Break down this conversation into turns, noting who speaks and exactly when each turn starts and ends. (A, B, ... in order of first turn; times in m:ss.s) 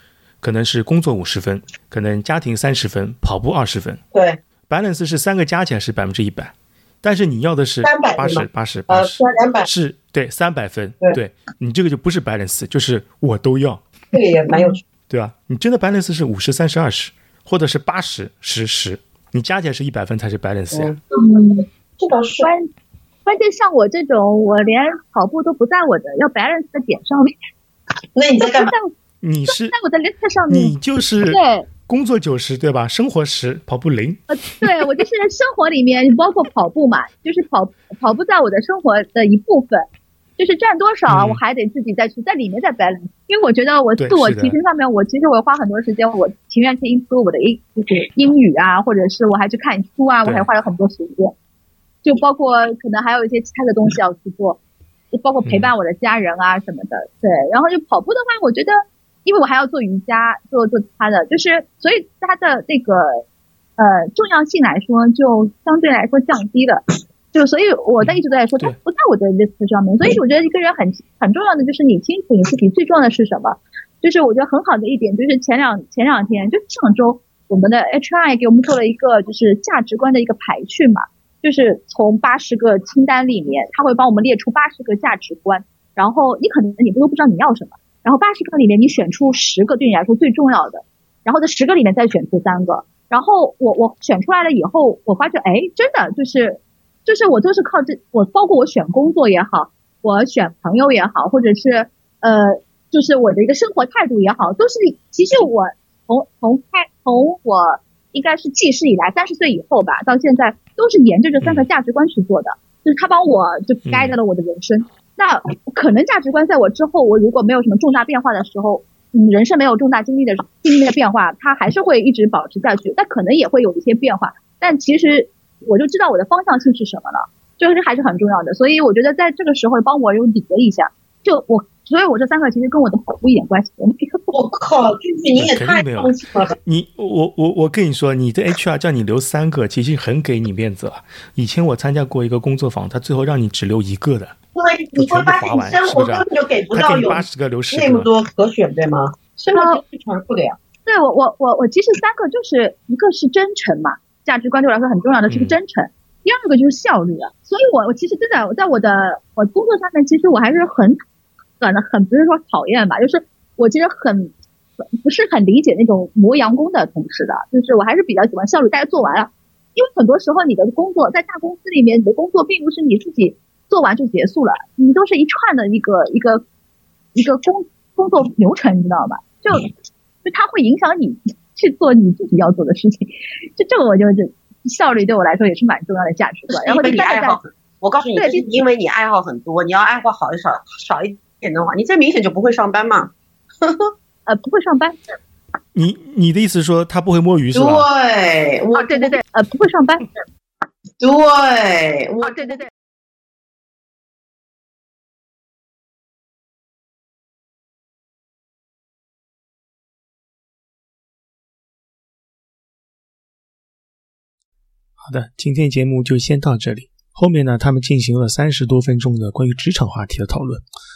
0:00.4-0:04.0 A
0:04.1-0:04.4 B
0:04.7-0:13.8 A
0:07.8-0:09.7 B
0:14.1-0:14.8 B
0:15.1-0:21.0 A
0:20.7-0:21.0 B
0:21.1-0:21.7 C
0:22.0-0:22.5 B
0:22.4-0:22.7 C
0:23.2-0:27.3 C
0:28.1-0:28.7 B
0:28.4-0:28.9 C
0:29.2-0:29.7 A
0:29.5-0:31.7 C
0:30.5-0:34.7 A
0:34.3-0:39.8 C
0:40.4-0:51.3 C
0:41.1-0:41.4 A
0:44.0-0:44.6 A
0:50.2-0:50.5 A
0:52.0-0:54.6 C
0:55.1-1:03.2 C
0:55.4-0:55.7 A
1:03.8-2:14.3 C
1:08.0-1:08.8 A
1:51.4-1:51.6 A
1:53.9-1:54.2 A
2:14.3-2:16.6 B
2:15.3-2:24.3 A
2:24.5-2:30.6 B
2:25.0-2:28.1 A
2:29.5-2:29.8 C
2:30.8-2:41.0 C
2:35.3-2:35.6 A
2:41.6-2:44.3 C
2:45.0-2:56.4 C
2:57.1-2:59.7 C
3:00.2-3:07.4 C
3:06.5-3:13.9 B
3:08.2-3:08.5 C
3:14.3-3:15.0 C
3:15.7-3:17.9 A
3:17.5-3:19.2 B
3:18.8-3:20.0 C
3:21.0-3:22.6 B
3:22.2-3:22.7 C
3:35.0-3:40.6 A